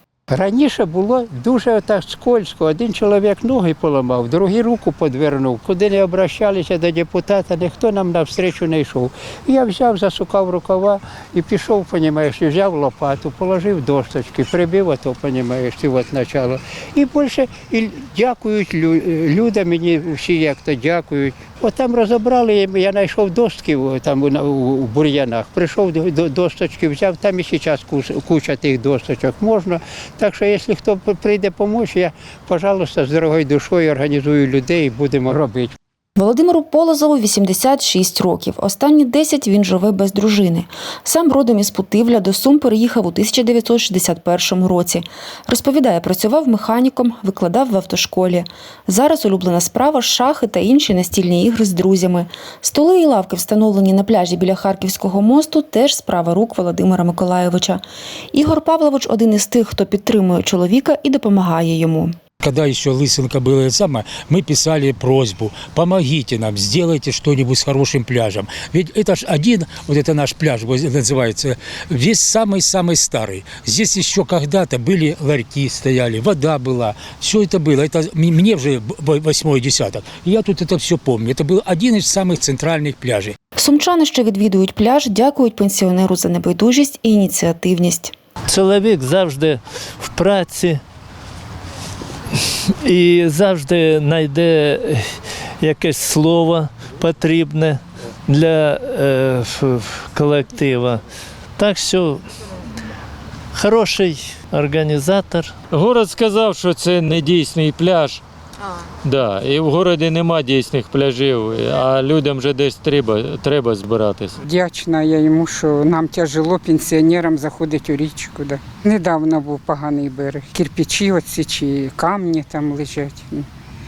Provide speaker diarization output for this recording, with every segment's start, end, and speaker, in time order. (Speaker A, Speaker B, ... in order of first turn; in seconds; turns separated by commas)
Speaker A: 0.3-35.8, Speaker B: 36.2-57.8, Speaker B: 58.3-62.1, Speaker C: 62.4-83.3, Speaker B: 83.6-88.1, Speaker D: 88.5-90.8, Speaker D: 92.8-101.0, Speaker D: 101.6-102.3, Speaker D: 103.5-105.5, Speaker E: 105.7-108.2, Speaker E: 109.0-114.4, Speaker F: 114.4-123.5